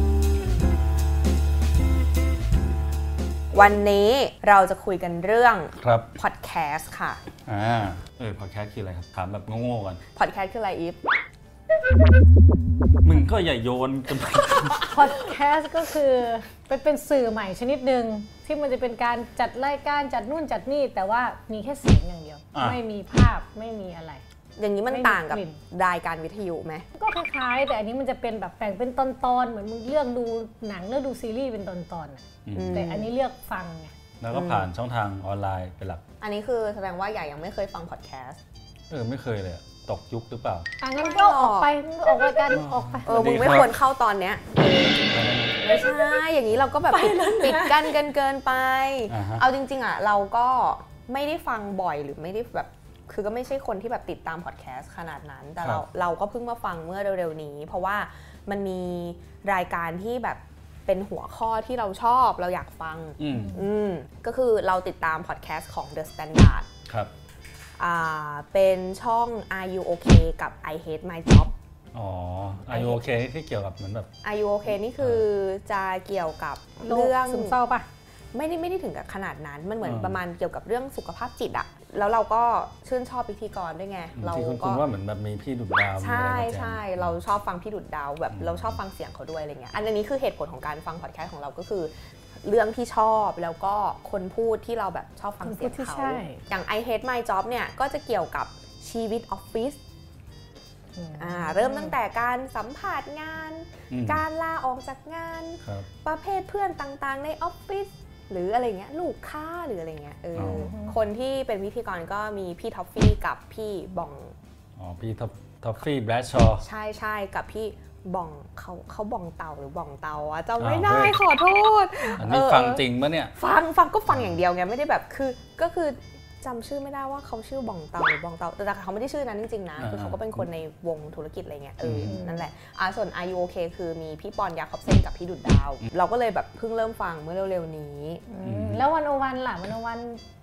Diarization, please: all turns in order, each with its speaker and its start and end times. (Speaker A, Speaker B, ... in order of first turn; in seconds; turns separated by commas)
Speaker A: 3.5-7.2, Speaker B: 5.8-6.1, Speaker B: 7.5-10.0, Speaker A: 10.2-11.0, Speaker B: 13.0-15.2, Speaker C: 14.9-24.2, Speaker B: 22.5-22.8, Speaker A: 24.6-26.9, Speaker C: 24.9-25.6, Speaker C: 26.9-33.9, Speaker B: 32.5-32.8, Speaker A: 32.5-33.1, Speaker B: 34.2-36.0, Speaker A: 34.3-34.7, Speaker A: 36.2-38.4, Speaker B: 38.9-40.7, Speaker C: 40.8-43.1, Speaker A: 41.0-41.7, Speaker B: 42.5-43.8, Speaker A: 43.1-45.0, Speaker B: 45.1-45.6, Speaker A: 45.6-66.7, Speaker C: 46.9-48.0, Speaker B: 49.1-49.4, Speaker B: 63.2-63.6, Speaker C: 63.3-63.6, Speaker A: 67.8-71.5, Speaker B: 71.9-74.1, Speaker A: 72.7-73.0, Speaker A: 74.2-77.6, Speaker B: 75.0-75.3, Speaker C: 76.8-77.9, Speaker A: 78.3-84.9, Speaker B: 79.8-80.2, Speaker B: 84.2-87.2, Speaker A: 86.0-91.9, Speaker B: 88.3-88.8, Speaker A: 92.4-99.8, Speaker C: 95.4-96.4, Speaker C: 101.0-102.0, Speaker A: 101.2-114.3, Speaker B: 103.9-104.2, Speaker B: 110.4-110.7, Speaker C: 110.4-111.0, Speaker B: 114.8-116.6, Speaker A: 116.6-122.8, Speaker B: 120.6-121.2, Speaker B: 122.2-123.3, Speaker A: 123.3-138.2, Speaker B: 124.1-124.4, Speaker B: 129.8-130.4, Speaker B: 131.8-132.2, Speaker C: 132.0-132.5, Speaker C: 138.3-140.2, Speaker B: 138.4-138.8